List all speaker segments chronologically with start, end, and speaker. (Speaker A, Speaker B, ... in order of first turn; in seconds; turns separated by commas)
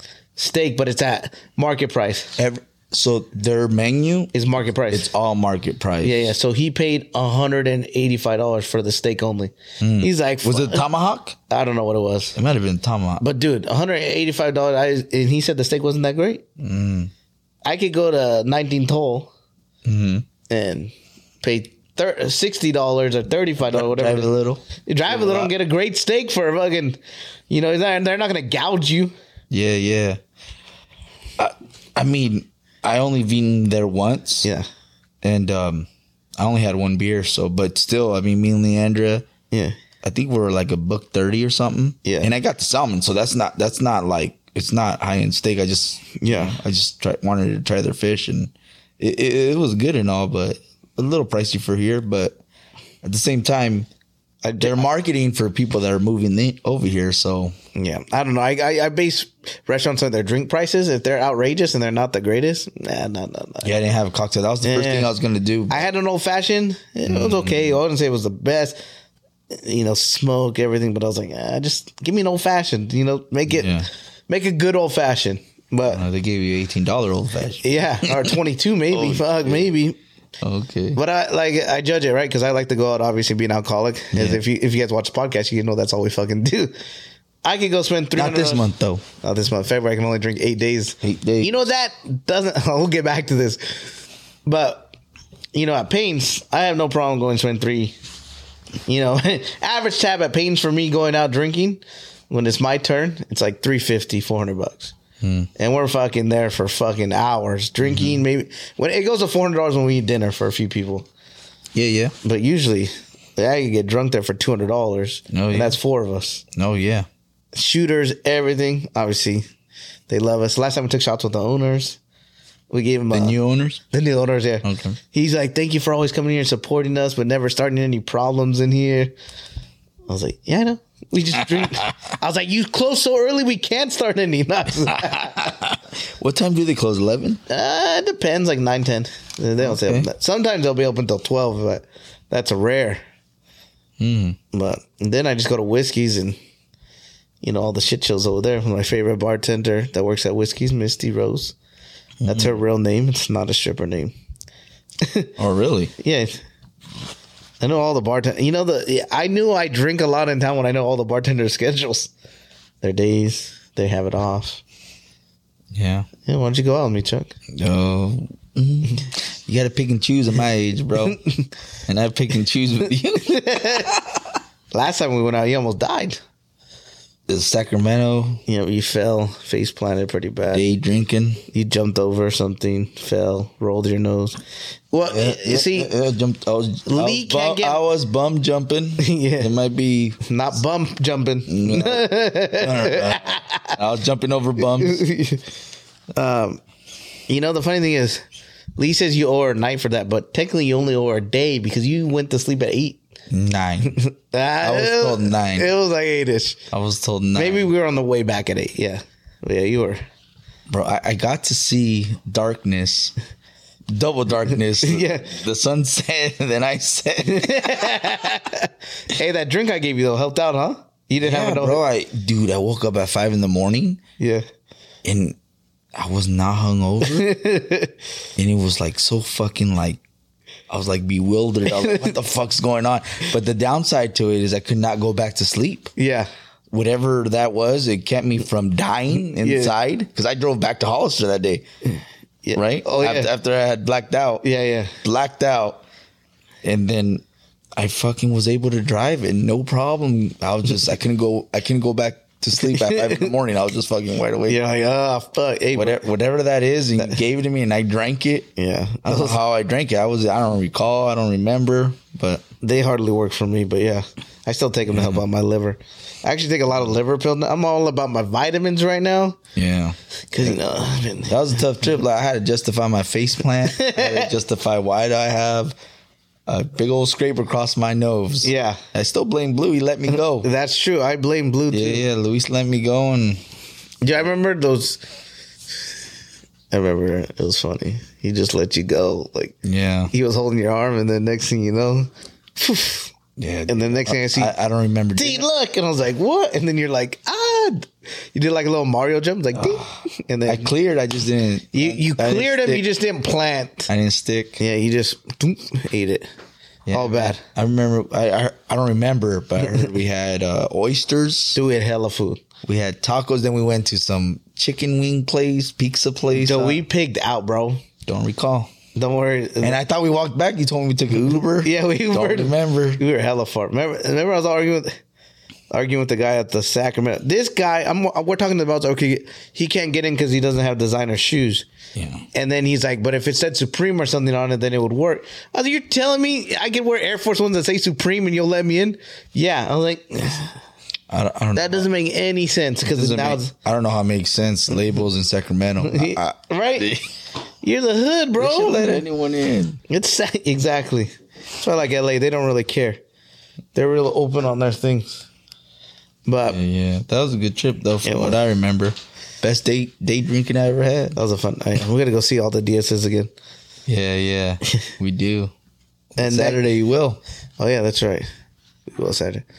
Speaker A: 0.3-2.3, Speaker B: 2.4-4.3, Speaker A: 4.3-5.1, Speaker B: 4.9-6.3, Speaker A: 6.0-10.8, Speaker B: 9.8-11.4, Speaker A: 11.5-12.4, Speaker B: 12.3-13.2, Speaker A: 13.2-16.4, Speaker B: 16.6-17.1, Speaker A: 17.6-19.3, Speaker B: 19.8-20.2, Speaker A: 20.5-24.3, Speaker B: 23.7-25.5, Speaker A: 24.8-27.0, Speaker A: 27.5-29.1, Speaker B: 29.5-30.2, Speaker B: 31.4-34.5, Speaker B: 35.2-39.2, Speaker A: 39.5-39.8, Speaker B: 40.0-52.4, Speaker A: 42.0-42.3, Speaker A: 46.2-46.6, Speaker B: 53.0-53.9, Speaker A: 54.4-54.9, Speaker B: 54.6-57.5, Speaker A: 57.7-63.7, Speaker B: 63.6-65.8, Speaker A: 64.6-65.1, Speaker A: 65.7-68.8, Speaker B: 67.0-67.8, Speaker A: 69.5-73.7, Speaker B: 73.5-73.9, Speaker A: 74.3-76.0, Speaker B: 75.9-78.3, Speaker A: 77.6-80.0, Speaker B: 78.9-79.6, Speaker B: 80.4-81.0, Speaker A: 80.9-86.7, Speaker B: 84.1-84.4, Speaker A: 87.4-88.7, Speaker B: 88.1-89.0, Speaker A: 89.2-94.9, Speaker B: 91.0-91.7, Speaker A: 95.5-97.9, Speaker A: 98.9-104.9, Speaker B: 105.2-105.5, Speaker A: 105.6-111.0, Speaker B: 107.8-108.2, Speaker B: 111.7-112.1, Speaker A: 112.2-116.4, Speaker B: 115.3-115.8, Speaker B: 116.5-117.1, Speaker A: 117.5-119.4, Speaker A: 120.1-122.0, Speaker A: 122.7-123.3, Speaker B: 123.1-123.8, Speaker A: 123.9-129.1, Speaker B: 124.6-125.0, Speaker A: 130.1-135.6, Speaker B: 135.1-137.4, Speaker A: 137.5-143.0, Speaker B: 139.6-140.1, Speaker B: 144.0-144.4, Speaker A: 144.5-146.4, Speaker A: 147.4-151.5, Speaker B: 152.2-152.6, Speaker A: 152.2-154.1, Speaker B: 155.4-155.9, Speaker A: 156.0-156.4, Speaker A: 157.6-162.1, Speaker A: 162.8-164.6, Speaker B: 165.7-166.1, Speaker A: 166.2-167.3, Speaker B: 167.5-171.2, Speaker A: 171.1-171.4, Speaker B: 171.9-173.9, Speaker A: 173.2-174.0, Speaker A: 174.7-176.2, Speaker B: 177.3-178.4, Speaker A: 178.5-180.7, Speaker B: 180.5-181.4, Speaker A: 181.5-184.4, Speaker A: 184.9-185.9, Speaker B: 185.1-190.2, Speaker A: 186.9-187.8, Speaker A: 189.0-189.5, Speaker A: 190.2-193.8, Speaker B: 191.5-195.0, Speaker A: 194.6-195.4, Speaker A: 196.2-196.6, Speaker A: 197.3-198.2, Speaker A: 198.8-203.0, Speaker B: 203.3-204.0, Speaker A: 203.8-206.6, Speaker B: 204.6-205.7, Speaker B: 206.7-207.7, Speaker A: 207.3-210.0, Speaker B: 210.7-213.2, Speaker B: 213.9-218.2, Speaker A: 214.8-215.4, Speaker A: 217.2-221.8, Speaker B: 221.2-224.0, Speaker A: 224.2-224.4, Speaker B: 225.0-225.3, Speaker B: 225.9-227.3, Speaker A: 227.0-227.9, Speaker B: 228.4-230.0, Speaker B: 230.7-235.9, Speaker A: 231.7-232.1, Speaker A: 236.0-236.3, Speaker B: 236.7-241.7, Speaker A: 239.1-239.7, Speaker A: 242.4-243.3, Speaker B: 242.5-244.4, Speaker A: 244.4-244.9, Speaker B: 245.0-245.8, Speaker B: 246.6-247.2, Speaker B: 247.8-254.6, Speaker A: 252.6-253.3, Speaker A: 254.5-256.0, Speaker B: 255.7-258.5, Speaker A: 258.6-259.4, Speaker B: 259.0-262.4, Speaker A: 262.6-269.4, Speaker B: 264.9-265.2, Speaker B: 269.6-270.6, Speaker A: 270.3-271.9, Speaker B: 271.2-275.8, Speaker A: 273.7-274.3, Speaker B: 276.5-280.5, Speaker A: 278.4-278.8, Speaker A: 280.1-282.0, Speaker B: 281.7-283.4, Speaker A: 284.0-285.0, Speaker A: 286.7-289.6, Speaker B: 289.6-290.1, Speaker A: 290.1-293.1, Speaker B: 293.4-295.4, Speaker A: 293.7-294.5, Speaker A: 295.1-300.7, Speaker B: 299.6-299.9, Speaker B: 300.4-302.9, Speaker A: 301.7-303.9, Speaker B: 303.9-304.6, Speaker A: 304.6-306.3, Speaker B: 306.9-311.6, Speaker A: 306.9-307.4, Speaker A: 311.5-312.4, Speaker B: 312.6-316.8, Speaker A: 316.3-317.8, Speaker B: 318.1-318.7, Speaker A: 318.9-319.8, Speaker B: 319.6-323.0, Speaker A: 321.6-324.9, Speaker A: 325.7-331.6, Speaker B: 331.9-332.2, Speaker A: 332.3-340.5, Speaker B: 341.1-341.9, Speaker A: 341.5-343.5, Speaker B: 342.8-347.0, Speaker A: 345.8-346.9, Speaker A: 347.6-349.0, Speaker B: 348.4-349.8, Speaker A: 349.9-353.0, Speaker A: 353.7-355.2, Speaker A: 356.2-356.6, Speaker B: 356.4-361.1, Speaker A: 358.0-358.4, Speaker A: 361.1-363.3, Speaker B: 363.9-365.5, Speaker B: 366.1-367.2, Speaker A: 366.2-366.6, Speaker A: 367.6-368.2, Speaker A: 368.9-369.4